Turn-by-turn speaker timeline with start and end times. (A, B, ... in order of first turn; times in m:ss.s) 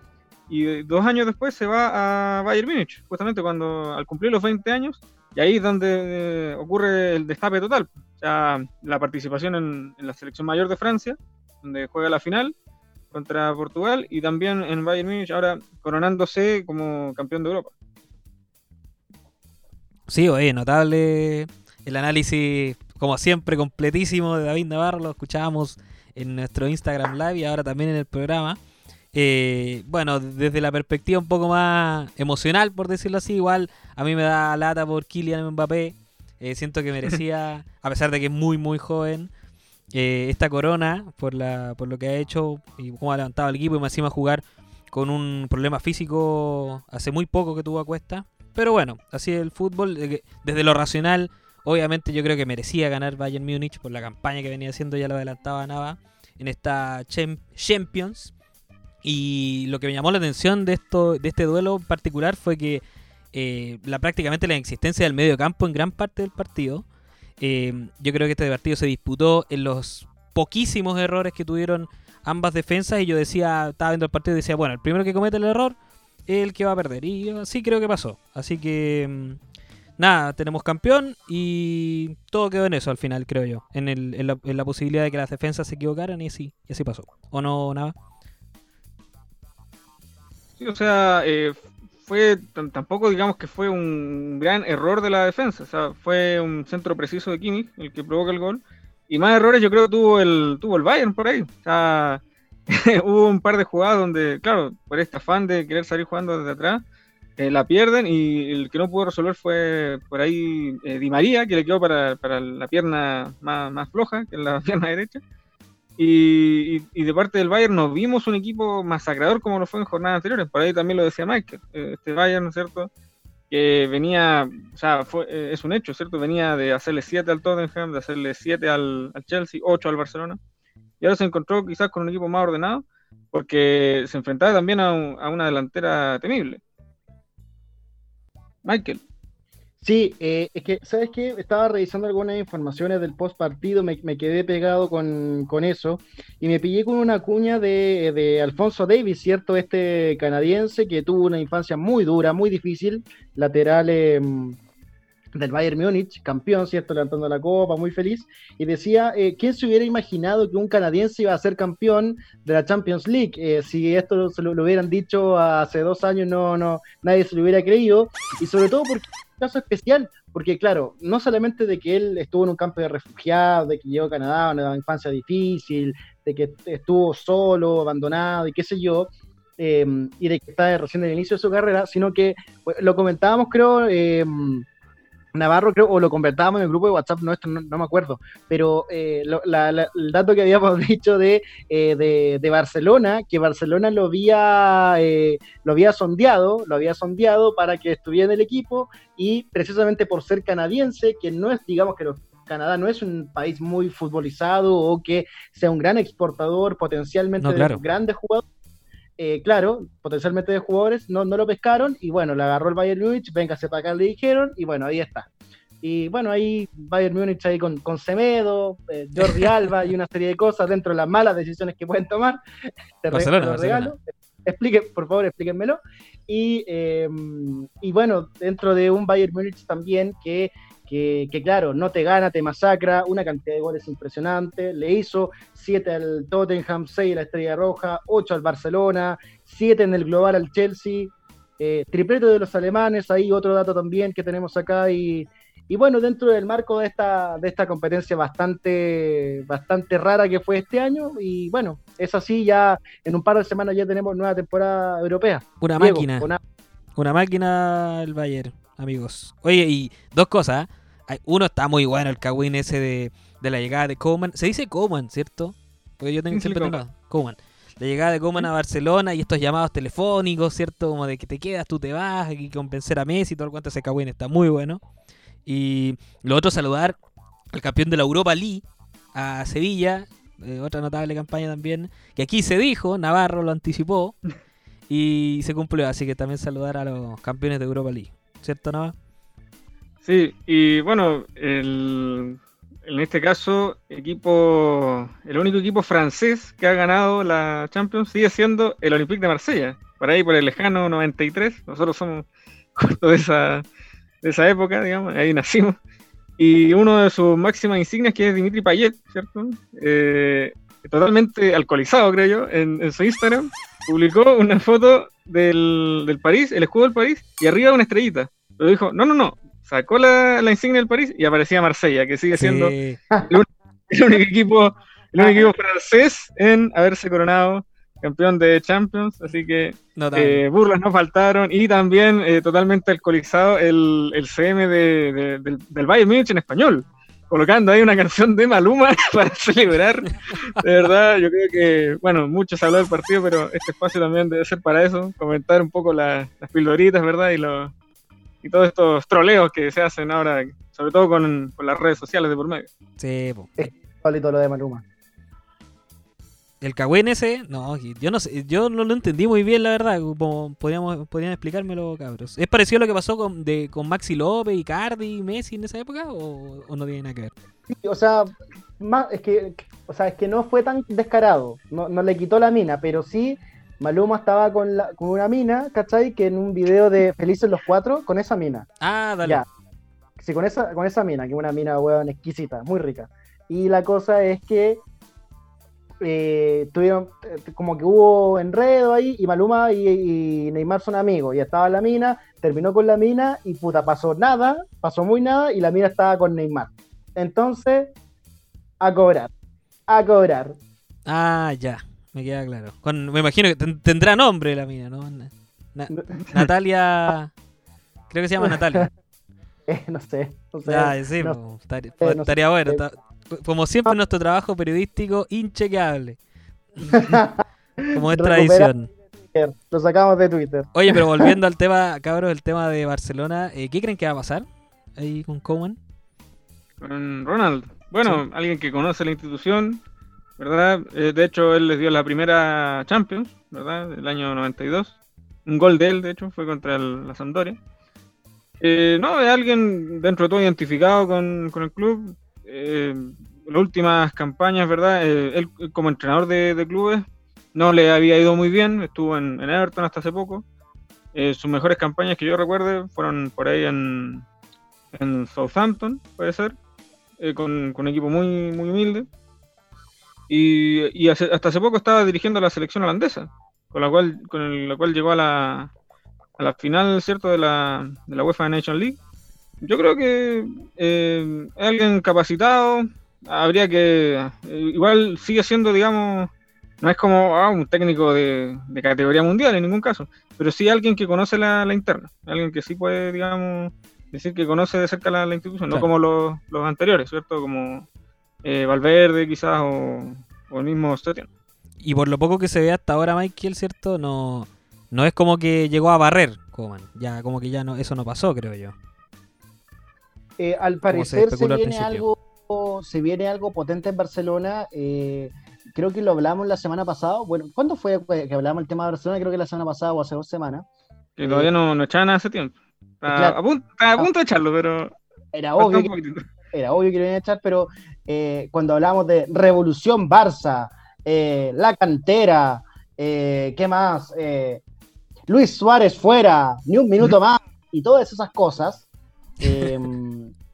0:00.5-0:12.5 A
0:13.1-0:17.7 A
0:20.1-0:28.6 B
0:29.1-0:39.3 B
0:39.9-0:58.3 B
0:59.0-1:02.8 B
1:03.3-1:06.8 B
1:07.4-1:15.8 B
1:16.3-1:19.4 B
1:20.0-1:27.9 B
1:30.6-1:46.8 A
1:47.4-1:55.2 A
1:56.0-2:02.9 A
2:03.5-2:10.4 A
2:11.0-2:16.6 A
2:18.6-2:19.0 A
2:19.8-2:34.6 C
2:35.3-3:04.6 C
3:05.3-3:28.4 C
3:27.4-3:27.8 B
3:29.2-3:35.3 C
3:35.8-3:42.4 C
3:43.0-4:16.4 C
3:43.1-3:43.9 B
4:15.6-4:16.3 B
4:17.0-4:34.8 B
4:26.3-4:26.8 A
4:35.4-4:37.0 B
4:37.5-4:38.6 B
4:39.1-4:44.2 B
4:44.9-4:48.9 B
4:50.0-5:03.6 A
5:04.2-5:05.8 A
5:06.4-5:22.7 A
5:22.3-5:23.0 B
5:23.2-5:47.7 A
5:25.2-5:25.5 C
5:30.0-5:30.4 B
5:48.4-5:52.7 A
5:53.0-5:53.5 B
5:53.6-5:54.8 C
5:56.6-6:07.3 B
6:07.7-6:18.7 C
6:18.8-6:19.4 B
6:20.2-6:24.8 C
6:26.0-6:37.9 C
6:38.8-6:39.3 C
6:39.9-6:40.6 C
6:41.1-6:47.3 B
6:48.1-6:48.9 B
6:48.4-6:48.9 C
6:49.7-6:51.4 C
6:50.6-6:56.2 B
6:52.0-6:52.8 C
6:56.8-6:57.2 B
6:56.9-6:57.4 C
6:57.9-6:58.9 B
6:57.9-6:58.7 C
6:59.3-7:01.3 C
7:00.7-7:05.8 B
7:06.8-7:09.8 A
7:10.4-7:17.6 A
7:18.6-7:30.4 A
7:31.1-7:34.2 A
7:34.9-7:36.5 A
7:37.2-7:39.1 A
7:40.3-7:45.7 A
7:46.4-7:49.0 A
7:49.6-7:56.3 A
7:56.8-8:07.9 A
8:08.4-8:11.3 A
8:11.8-8:18.7 B
8:20.4-8:30.6 C
8:20.9-8:22.0 B
8:31.2-8:34.9 A
8:31.2-8:31.5 C
8:33.1-8:33.4 C
8:35.3-8:35.9 C
8:35.6-8:36.2 A
8:36.5-8:44.6 C
8:45.3-8:48.9 C
8:49.4-8:50.3 C